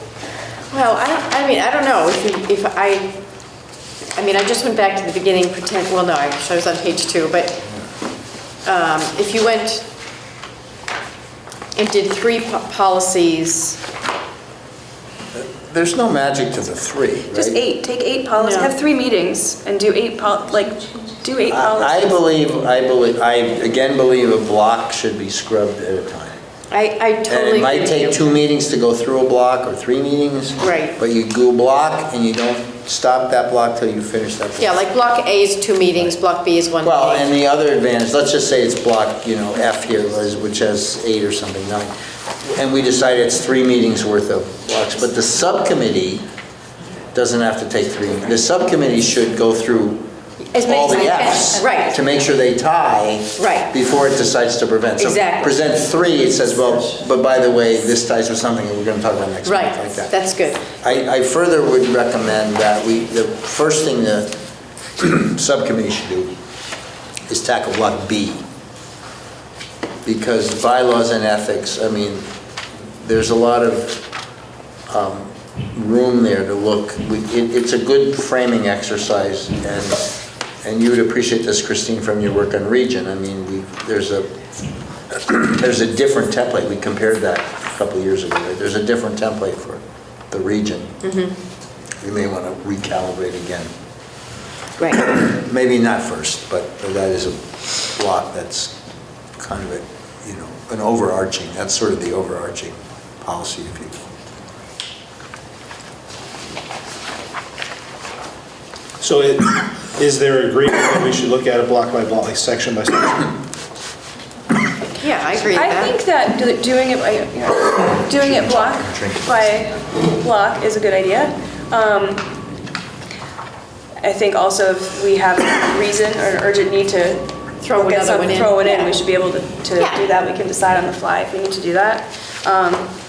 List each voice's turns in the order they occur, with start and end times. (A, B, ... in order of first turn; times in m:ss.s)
0:00.7-0:03.2 A
0:04.2-0:07.7 A
0:08.6-0:09.8 A
0:11.8-0:13.8 A
0:15.3-0:17.6 B
0:17.3-0:22.2 C
0:18.4-0:18.7 A
0:21.5-0:26.4 B
0:26.7-0:28.3 A
0:27.3-0:34.8 B
0:30.6-0:31.0 A
0:34.6-0:37.3 A
0:36.8-0:41.9 B
0:42.5-0:46.2 B
0:47.1-1:00.1 B
0:51.0-0:52.0 A
0:53.4-0:53.7 A
0:55.0-0:55.6 A
0:59.4-1:00.7 A
1:00.8-1:04.4 B
1:05.0-1:06.3 B
1:07.3-1:08.4 B
1:10.0-1:12.3 B
1:13.0-1:14.0 B
1:14.9-1:24.4 B
1:25.1-1:31.0 B
1:31.0-1:31.4 A
1:32.0-1:33.7 B
1:34.9-1:38.7 B
1:39.4-1:44.0 B
1:49.0-1:53.4 D
1:55.0-1:56.0 A
1:55.5-2:02.3 C
1:57.9-1:59.6 B
2:04.0-2:07.2 C
2:07.6-2:09.0 A
2:07.7-2:12.9 C
2:09.8-2:10.1 A